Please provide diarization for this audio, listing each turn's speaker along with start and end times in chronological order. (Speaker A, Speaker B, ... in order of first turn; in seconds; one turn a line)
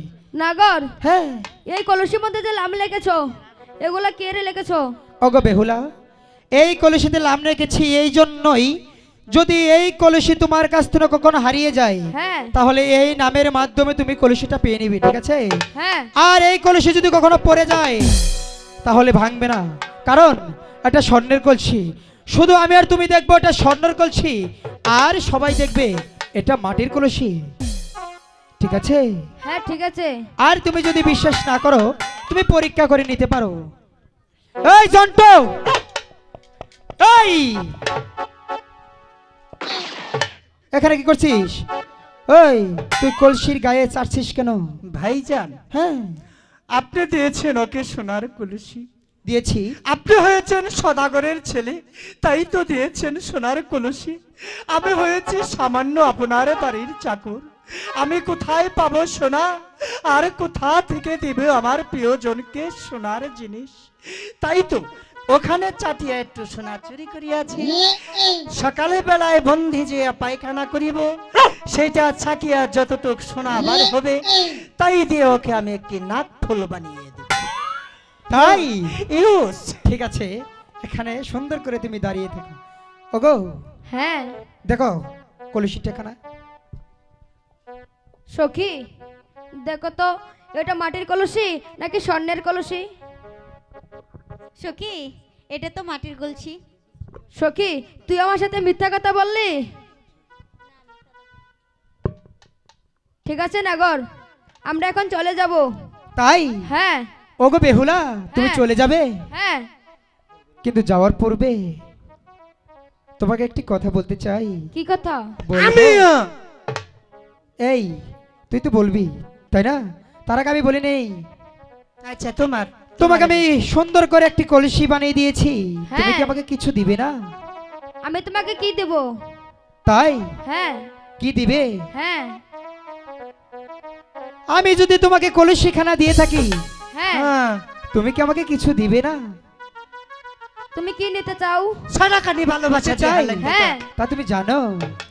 Speaker A: 0.3-0.9
Speaker B: 1.0-1.4
Speaker A: 1.7-3.2
Speaker A: 3.8-4.8
Speaker B: 5.2-5.8
Speaker B: 6.6-8.7
Speaker B: 9.3-15.5
Speaker A: 12.1-12.5
Speaker A: 15.8-16.1
Speaker B: 16.2-18.1
Speaker B: 18.8-24.4
Speaker B: 24.9-27.5
Speaker B: 28.6-29.1
Speaker A: 29.4-30.2
Speaker B: 30.4-33.6
Speaker B: 34.6-35.6
Speaker B: 37.0-37.8
Speaker B: 40.7-41.6
Speaker B: 42.3-44.6
Speaker C: 44.9-45.6
Speaker B: 45.7-46.2
Speaker C: 46.7-48.9
Speaker B: 49.2-49.8
Speaker C: 49.9-77.4
Speaker B: 78.3-78.9
Speaker C: 78.3-79.8
Speaker B: 79.8-80.3
Speaker B: 80.8-82.6
Speaker B: 83.1-83.5
Speaker A: 83.9-84.3
Speaker B: 84.7-85.0
Speaker B: 85.5-86.2
Speaker A: 88.3-88.8
Speaker A: 89.7-92.8
Speaker D: 94.6-96.6
Speaker A: 97.3-99.5
Speaker A: 103.2-104.0
Speaker A: 104.7-105.6
Speaker B: 106.2-106.6
Speaker A: 106.7-107.1
Speaker B: 107.4-109.1
Speaker A: 108.3-108.6
Speaker A: 109.3-109.7
Speaker B: 110.6-111.6
Speaker B: 113.2-114.7
Speaker A: 114.7-115.2
Speaker B: 115.4-116.1
Speaker C: 115.5-116.3
Speaker B: 117.6-118.0
Speaker B: 118.5-121.1
Speaker C: 122.0-123.4
Speaker B: 123.0-127.1
Speaker A: 125.9-126.3
Speaker A: 128.0-129.1
Speaker B: 129.9-130.3
Speaker A: 130.4-130.9
Speaker B: 131.2-131.7
Speaker A: 131.9-132.4
Speaker B: 134.5-136.6
Speaker A: 136.9-137.3
Speaker C: 137.1-137.6
Speaker B: 137.9-139.2
Speaker A: 140.7-141.7
Speaker C: 141.9-143.8
Speaker B: 142.8-144.8
Speaker A: 143.4-143.8